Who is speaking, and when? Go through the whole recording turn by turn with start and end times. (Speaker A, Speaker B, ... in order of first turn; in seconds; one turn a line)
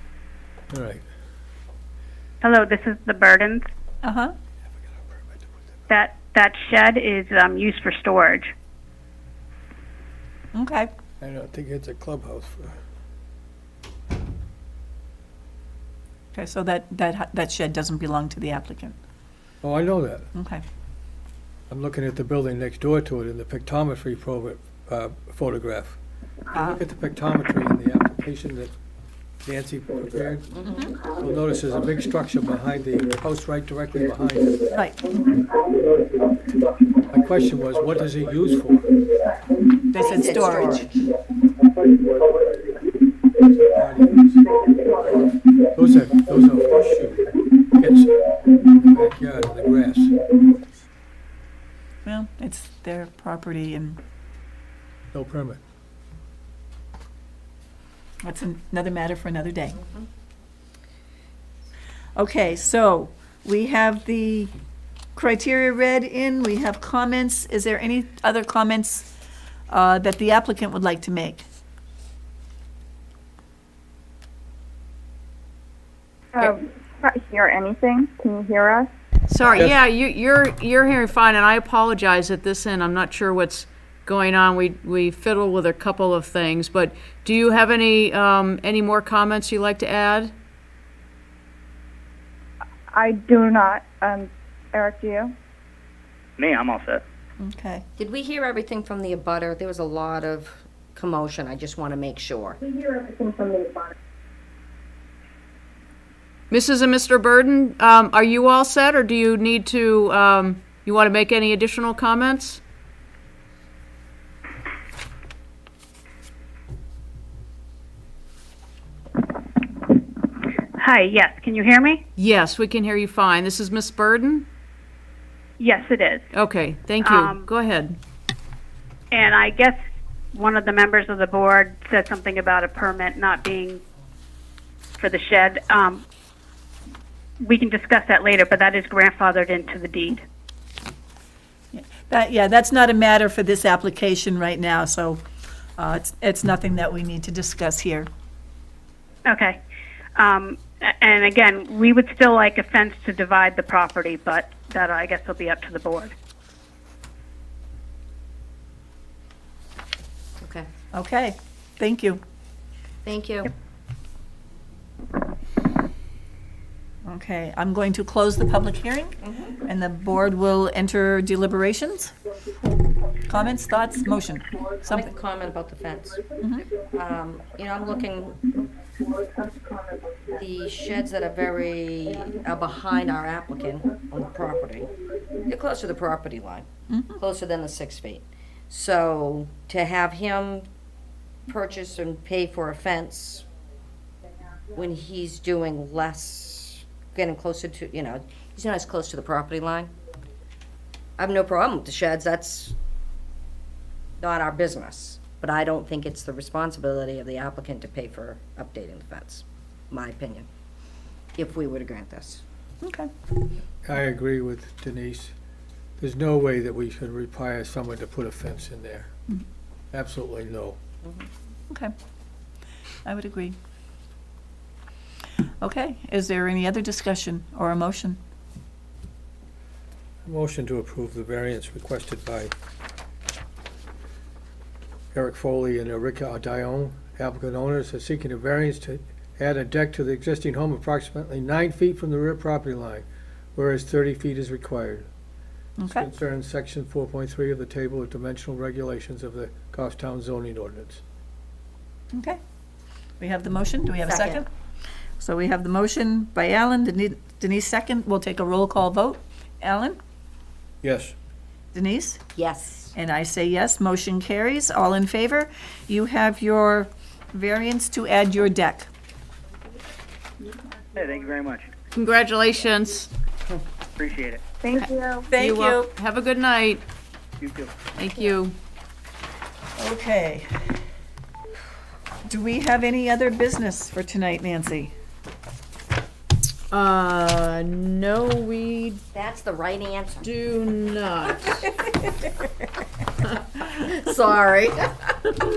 Speaker A: 0.7-1.0
Speaker B: 2.4-3.7
Speaker C: 4.0-4.3
Speaker A: 4.7-5.8
Speaker B: 5.9-8.5
Speaker C: 10.5-10.9
Speaker A: 11.2-12.8
Speaker C: 16.3-18.9
Speaker A: 19.6-20.3
Speaker C: 20.3-20.6
Speaker A: 21.7-26.0
Speaker A: 26.5-28.7
Speaker A: 29.4-30.6
Speaker A: 31.1-34.6
Speaker C: 34.7-35.0
Speaker A: 37.1-38.9
Speaker C: 39.9-40.9
Speaker D: 40.0-41.0
Speaker A: 43.6-44.5
Speaker A: 45.7-50.2
Speaker C: 52.0-54.0
Speaker A: 55.1-55.6
Speaker C: 58.2-59.8
Speaker C: 62.1-64.5
Speaker C: 65.1-69.1
Speaker C: 69.7-71.5
Speaker E: 76.3-78.9
Speaker F: 79.3-90.3
Speaker A: 79.5-79.8
Speaker E: 92.9-95.3
Speaker G: 96.4-97.0
Speaker C: 97.4-97.8
Speaker D: 98.0-102.6
Speaker E: 102.7-103.9
Speaker F: 106.5-112.6
Speaker B: 120.8-122.0
Speaker F: 122.2-124.5
Speaker B: 125.6-126.2
Speaker F: 126.3-128.0
Speaker B: 127.0-127.5
Speaker B: 129.1-129.8
Speaker B: 130.3-133.8
Speaker B: 135.0-136.0
Speaker B: 137.4-140.2
Speaker C: 141.7-145.2
Speaker C: 145.8-148.1
Speaker B: 149.2-149.6
Speaker B: 150.2-156.1
Speaker D: 160.4-160.7
Speaker C: 160.9-162.2
Speaker D: 163.0-163.5
Speaker C: 167.0-172.1
Speaker D: 169.2-169.6
Speaker C: 173.3-175.1
Speaker D: 174.8-176.3
Speaker D: 176.9-178.6
Speaker D: 180.3-184.9
Speaker D: 185.5-190.7
Speaker C: 186.9-187.2
Speaker D: 191.5-193.4
Speaker D: 194.7-199.9
Speaker D: 201.2-202.7
Speaker D: 204.2-210.5
Speaker D: 211.3-212.4
Speaker C: 212.8-213.1
Speaker A: 213.8-215.3
Speaker A: 216.0-219.1
Speaker A: 219.9-220.8
Speaker C: 223.0-223.6
Speaker C: 225.6-228.2
Speaker A: 230.2-232.5
Speaker A: 235.1-245.1
Speaker C: 245.8-246.1
Speaker A: 245.8-251.0
Speaker C: 252.1-252.4
Speaker C: 253.2-254.5
Speaker D: 254.0-254.4
Speaker C: 255.2-260.0
Speaker A: 260.8-261.1
Speaker C: 261.7-262.2
Speaker D: 262.3-262.9
Speaker C: 262.9-268.9
Speaker G: 271.0-271.7
Speaker F: 271.9-273.1
Speaker G: 274.0-274.4
Speaker E: 274.6-275.3
Speaker C: 275.3-275.9
Speaker F: 275.4-276.8
Speaker G: 277.4-277.7
Speaker F: 277.9-278.5
Speaker C: 279.8-280.5
Speaker C: 282.2-284.9
Speaker F: 286.7-289.0
Speaker D: 289.1-290.3
Speaker F: 290.2-291.6
Speaker D: 293.2-295.4